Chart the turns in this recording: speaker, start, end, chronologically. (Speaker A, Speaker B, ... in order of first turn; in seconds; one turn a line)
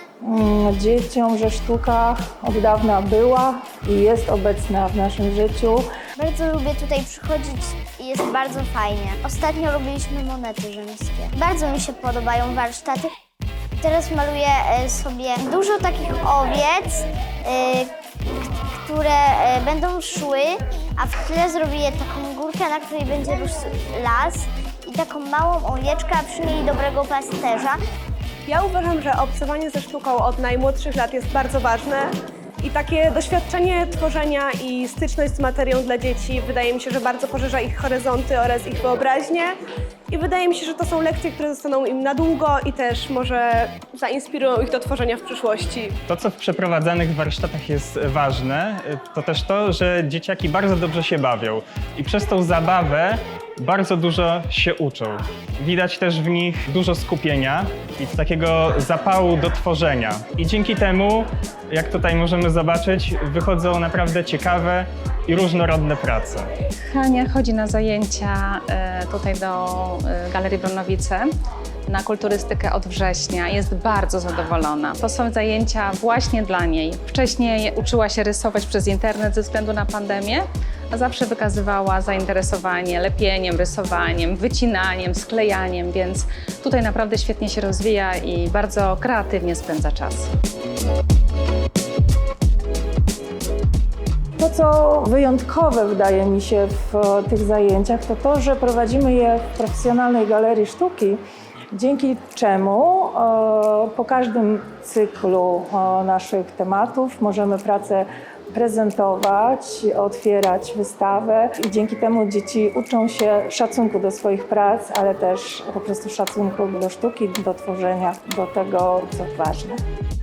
Speaker A: 0.2-5.9
Speaker B: 6.2-13.1
Speaker B: 13.8-17.9
Speaker B: 18.7-27.8
Speaker C: 28.5-39.5
Speaker C: 40.1-45.9
Speaker D: 46.1-66.5
Speaker E: 66.9-71.3
Speaker E: 71.9-90.3
Speaker A: 94.4-101.2
Speaker A: 101.7-119.8